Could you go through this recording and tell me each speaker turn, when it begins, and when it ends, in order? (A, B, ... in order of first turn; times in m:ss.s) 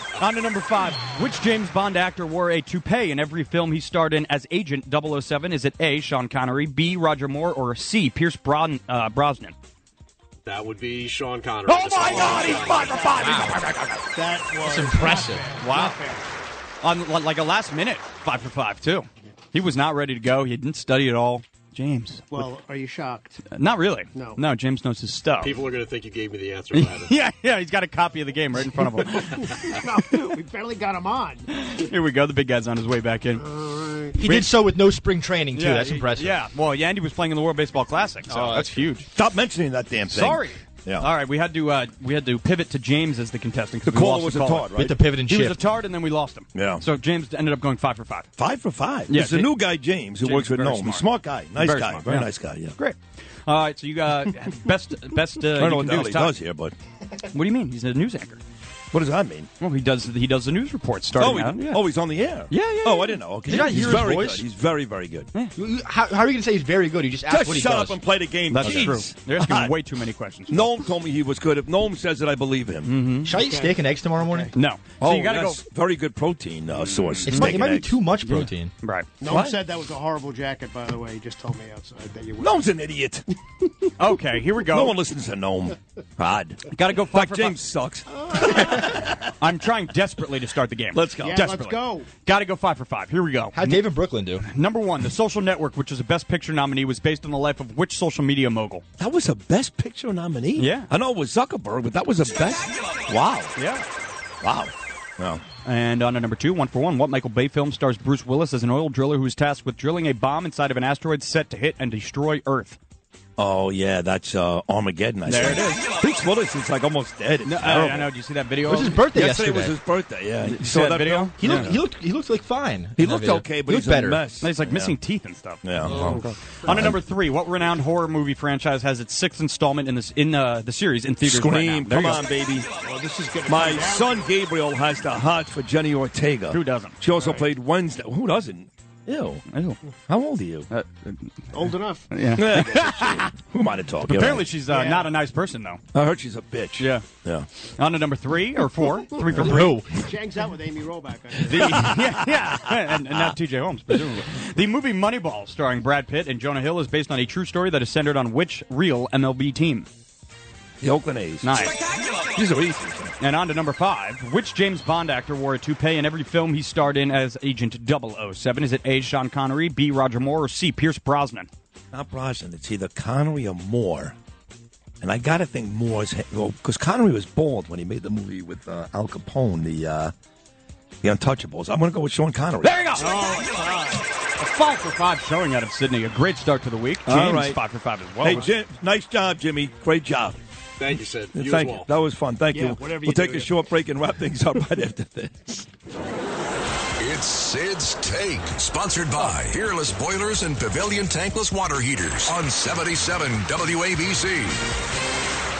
0:00.2-0:09.5 A
0:10.4-0:13.0 B
0:11.7-0:14.0 A
0:12.4-0:13.4 C
0:13.2-0:13.6 D
0:14.1-0:16.2 C
0:14.7-0:15.5 D
0:15.6-0:16.0 A
0:16.8-0:22.6 A
0:22.3-0:23.4 C
0:23.5-0:25.6 A
0:24.2-0:24.4 C
0:25.4-0:27.1 B
0:26.7-0:30.3 A
0:29.2-0:31.5 C
0:31.5-0:33.6 A
0:33.4-0:34.2 C
0:34.2-0:36.4 D
0:34.2-0:34.6 A
0:35.5-0:39.1 A
0:38.3-0:38.9 D
0:39.1-0:41.1 E
0:40.1-0:48.3 A
0:43.8-0:45.0 E
0:44.8-0:45.6 D
0:46.5-0:46.8 E
0:48.4-0:52.8 E
0:49.1-0:49.6 A
0:50.2-0:56.4 A
0:55.6-0:56.8 E
0:57.2-0:58.4 A
0:58.9-0:59.5 E
0:59.6-1:01.9 A
1:01.2-1:05.3 E
1:02.5-1:03.9 A
1:03.4-1:04.5 D
1:05.6-1:08.0 D
1:07.3-1:09.8 E
1:08.5-1:10.6 A
1:08.6-1:09.0 D
1:10.5-1:12.9 E
1:12.8-1:13.3 A
1:13.2-1:14.5 D
1:13.3-1:14.5 C
1:14.5-1:15.6 A
1:15.0-1:18.0 E
1:16.7-1:17.6 A
1:17.3-1:18.7 D
1:18.2-1:19.1 A
1:19.2-1:22.7 C
1:19.2-1:19.6 E
1:22.4-1:23.3 E
1:24.0-1:25.0 A
1:24.7-1:29.2 E
1:26.7-1:27.7 A
1:29.2-1:33.8 A
1:30.9-1:31.4 E
1:31.2-1:32.1 C
1:33.5-1:34.5 D
1:34.4-1:38.8 A
1:39.0-1:43.5 E
1:40.6-1:40.9 A
1:43.6-1:43.9 A
1:44.4-1:45.4 E
1:45.6-1:52.8 A
1:53.4-1:58.1 E
1:55.2-1:55.9 A
1:57.4-1:59.2 A
1:58.7-1:59.8 D
1:58.9-2:01.8 E
2:00.4-2:04.2 D
2:00.4-2:01.7 A
2:03.0-2:05.0 E
2:04.4-2:12.3 A
2:05.6-2:07.0 E
2:11.2-2:12.7 E
2:12.8-2:14.3 C
2:13.4-2:19.4 E
2:16.5-2:17.0 A
2:17.2-2:17.5 C
2:19.5-2:19.8 A
2:20.1-2:20.7 E
2:20.7-2:23.3 A
2:21.5-2:23.0 C
2:22.4-2:24.5 E
2:24.1-2:25.8 A
2:24.6-2:25.1 C
2:25.9-2:27.5 E
2:26.8-2:27.0 A
2:27.8-2:29.8 A
2:29.2-2:31.9 C
2:29.4-2:30.0 D
2:31.4-2:39.9 A
2:31.6-2:33.3 E
2:40.8-2:41.6 E
2:41.4-2:41.8 A
2:42.3-2:43.2 E
2:43.2-2:51.5 A
2:51.9-2:54.2 E
2:55.0-3:00.1 E
3:01.0-3:03.1 E
3:02.6-3:08.5 A
3:03.1-3:03.4 C
3:07.1-3:07.6 E
3:08.2-3:10.4 E
3:10.8-3:11.9 B
3:11.3-3:15.7 E
3:12.5-3:13.7 C
3:17.0-3:24.6 F